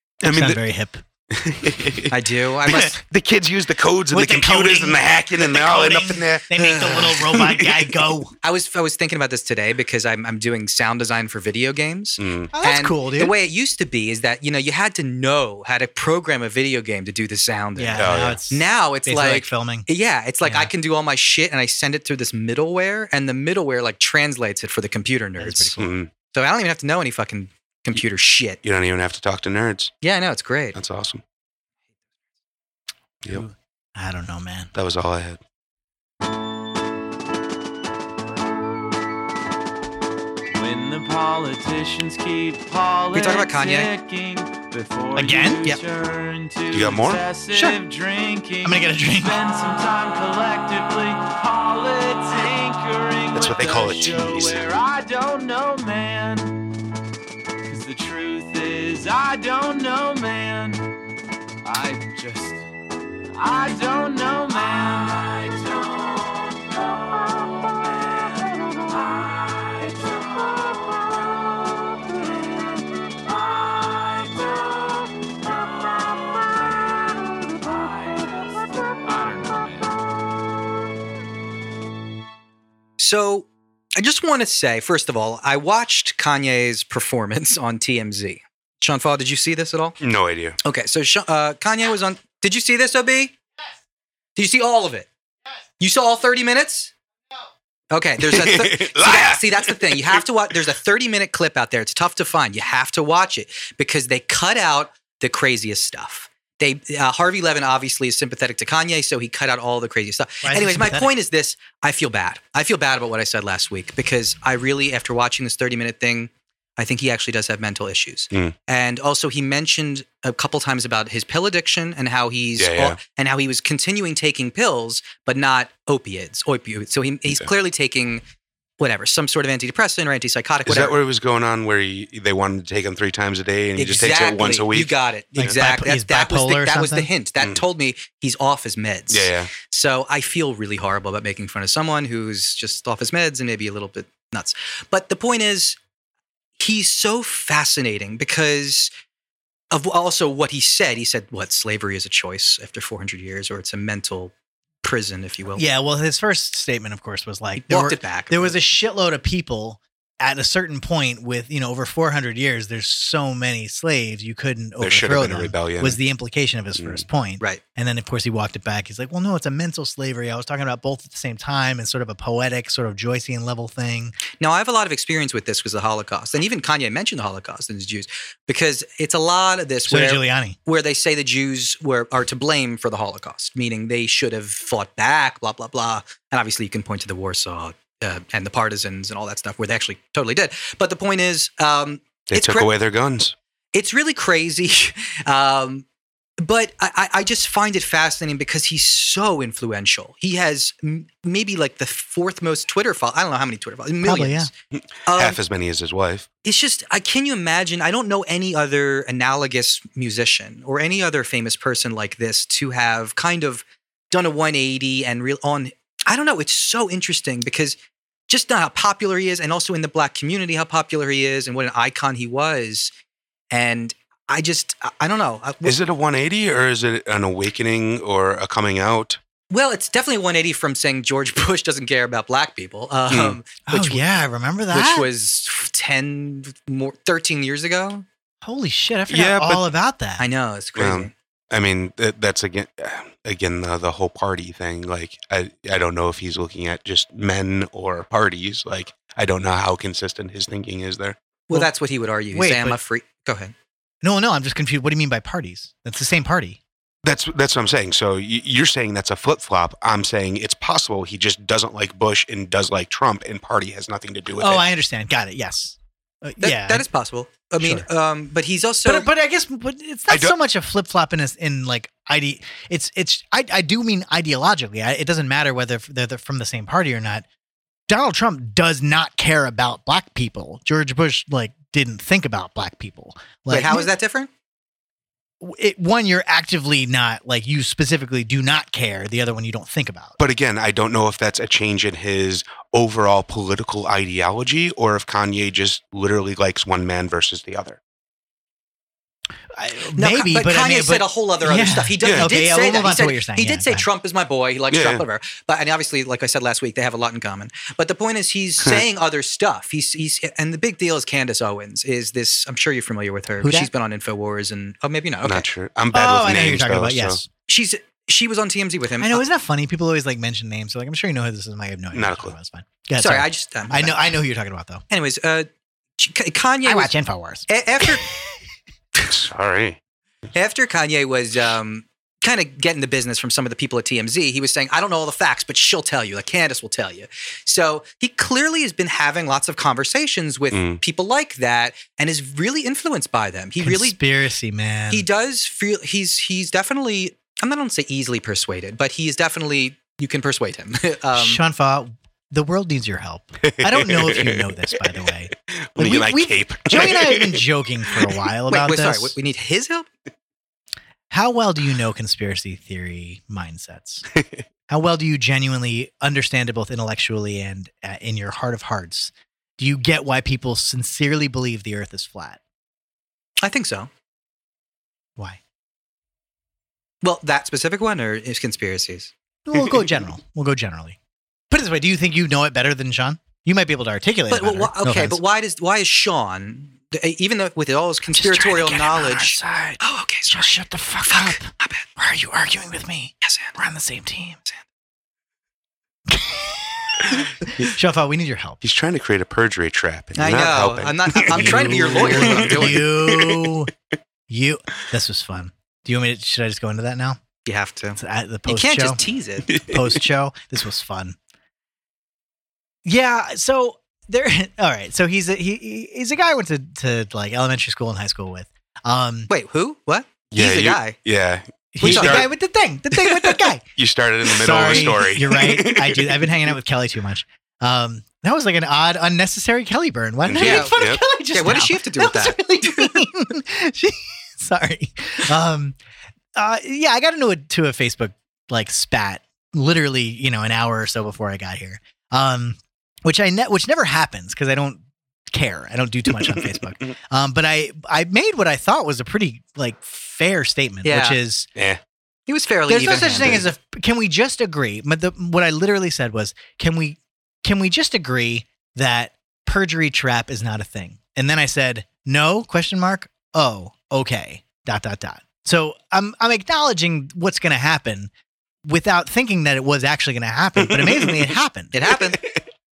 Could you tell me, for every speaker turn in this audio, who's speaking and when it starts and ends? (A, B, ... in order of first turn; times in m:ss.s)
0:00.2-0:00.6 A
0:00.2-0:01.0 B
0:01.3-0:08.0 A
0:02.1-0:03.0 C
0:04.1-0:08.3 B
0:06.6-0:07.1 C
0:08.4-0:28.6 C
0:12.2-0:12.5 A
0:12.5-0:13.3 B
0:17.8-0:19.9 B
0:18.0-0:18.4 A
0:20.4-0:20.7 B
0:25.4-0:25.9 B
0:25.8-0:26.1 A
0:28.6-0:29.9 A
0:30.0-0:30.8 C
0:30.8-0:31.2 A
0:33.3-0:34.7 B
0:34.8-0:35.4 A
0:40.5-0:56.6 D
0:43.1-0:43.9 C
0:45.2-0:45.7 B
0:46.7-0:47.2 A
0:47.5-0:47.8 B
0:48.6-0:49.4 B
0:53.3-0:54.6 A
0:57.6-1:00.9 D
1:01.6-1:02.7 D
1:03.4-1:11.1 D
1:11.8-1:20.0 D
1:23.0-1:30.0 C
1:30.0-1:30.6 A
1:30.6-1:33.4 C
1:34.4-1:35.1 C
1:35.8-1:36.9 C
1:37.9-2:08.2 C
1:38.2-1:40.2 A
1:50.4-1:51.1 B
2:02.6-2:03.0 A
2:08.8-2:11.0 C
2:10.7-2:14.9 A
2:13.8-2:25.8 C
2:15.4-2:17.1 B
2:19.1-2:19.5 A
2:26.6-2:28.9 C
2:29.7-2:34.3 C
2:34.8-2:35.6 C
2:35.6-2:54.2 B
2:37.6-2:38.6 C
2:44.8-2:46.0 A
2:46.8-2:47.0 A
2:54.4-3:12.7 C
2:59.9-3:00.6 B
3:12.3-3:13.4 A
3:13.7-3:15.8 C
3:16.4-3:24.5 C
3:24.0-3:24.5 B
3:24.8-3:26.3 A
3:25.1-3:25.4 C
3:26.4-3:37.8 C
3:38.3-3:42.9 C
3:43.5-3:45.8 C
3:45.6-3:49.2 A
3:49.5-3:54.2 C
3:53.1-3:53.4 A
3:53.7-3:55.1 B
3:54.7-3:58.0 C
3:58.4-4:00.2 B
3:59.1-3:59.7 A
4:00.2-4:01.1 C
4:00.8-4:11.2 A
4:11.5-4:13.5 C
4:12.3-4:12.8 B
4:14.0-4:16.6 B
4:17.0-4:24.7 A
4:24.4-4:26.8 B
4:26.4-4:29.1 C
4:27.6-4:27.9 B
4:28.8-4:37.2 B
4:30.1-4:30.4 A
4:37.9-4:43.9 B
4:43.5-4:44.3 C
4:45.4-4:50.2 B
4:50.2-4:57.8 A
4:59.5-5:03.9 B
5:00.0-5:15.4 C
5:02.0-5:02.3 A
5:04.7-5:05.0 A
5:13.4-5:13.7 B
5:15.2-5:17.2 A
5:15.9-5:17.3 B
5:17.5-5:19.2 C
5:19.0-5:24.8 B
5:21.9-5:22.3 A
5:23.0-5:24.1 C
5:24.9-5:26.9 C
5:26.6-5:27.9 B
5:27.5-5:28.1 C
5:29.1-5:29.8 A
5:30.3-5:44.0 C
5:40.5-5:40.8 A
5:43.6-5:45.1 B
5:44.9-5:51.4 C
5:51.2-5:59.2 B
5:53.4-5:57.4 A
5:58.5-5:59.9 C
6:01.1-6:04.1 B
6:04.2-6:04.4 A
6:04.7-6:12.4 B
6:13.4-6:13.9 C
6:17.0-6:19.1 C
6:19.5-6:21.0 B
6:21.5-6:25.2 B
6:24.3-6:31.9 C
6:28.1-6:34.4 B
6:33.2-6:33.6 C
6:36.1-6:38.6 B
6:38.6-6:43.5 A
6:40.2-6:42.9 C
6:41.3-6:43.7 B
6:44.3-6:47.2 B
6:47.4-6:49.5 C
6:48.0-6:49.0 B
6:49.5-6:50.0 A
6:49.6-6:51.2 B
6:52.8-6:59.3 B
6:59.3-7:01.0 C
7:00.3-7:02.3 A
7:01.8-7:03.6 B
7:01.8-7:02.3 C
7:03.8-7:06.4 A
7:04.3-7:15.8 B
7:10.2-7:11.0 A
7:10.4-7:10.8 C
7:11.3-7:13.0 C
7:16.4-7:24.8 B
7:25.3-7:31.5 B
7:26.1-7:26.9 A
7:30.8-7:31.2 C
7:31.6-7:31.8 A
7:32.3-7:33.4 C
7:32.7-7:48.1 B
7:33.1-7:33.4 A
7:48.6-7:51.7 B
7:50.6-7:51.3 A
7:51.7-7:52.2 C